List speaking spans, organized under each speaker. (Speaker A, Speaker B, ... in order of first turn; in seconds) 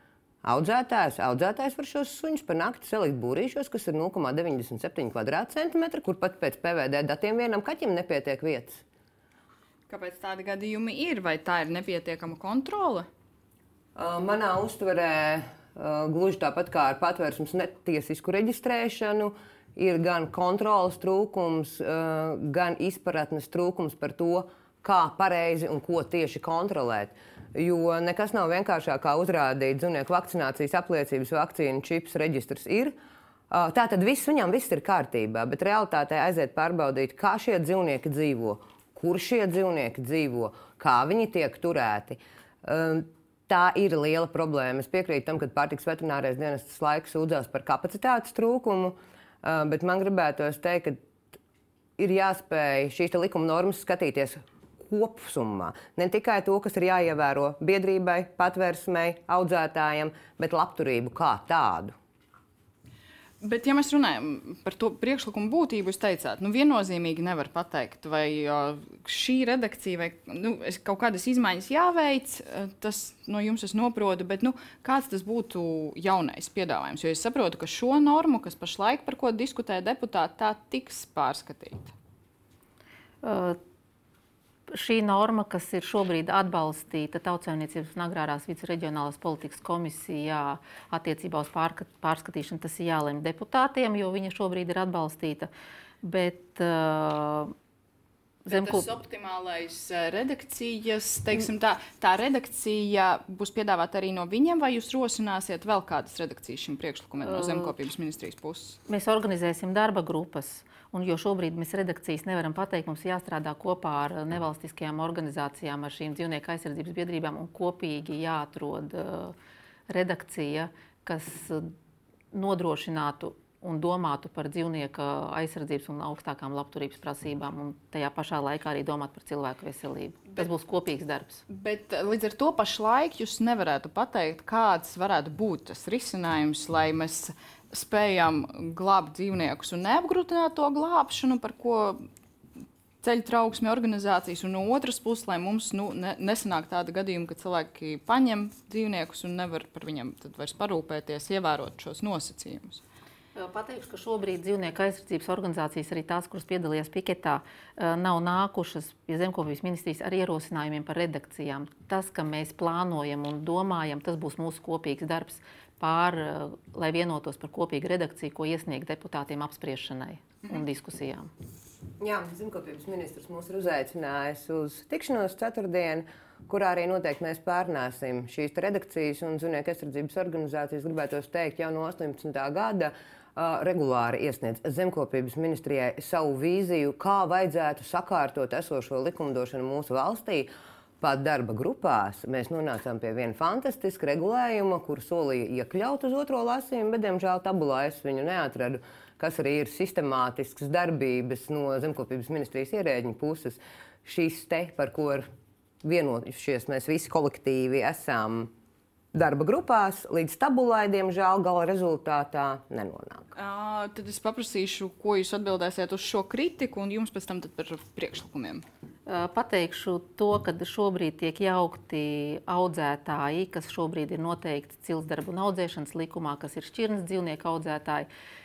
Speaker A: 0.4-8.8, 13.9-32.9, 33.5-51.0, 52.0-62.0, 172.0-190.5, 191.0-205.2, 205.8-208.5, 209.1-213.3
Speaker B: 9.9-13.1, 63.4-81.9, 98.5-108.8, 131.5-142.1, 143.0-152.8, 213.3-218.6
Speaker C: 83.2-83.6, 84.7-95.5, 96.0-97.5, 98.5-98.9, 107.2-107.7, 108.9-119.3, 119.9-121.7, 122.3-131.4, 153.3-171.3, 219.1-228.1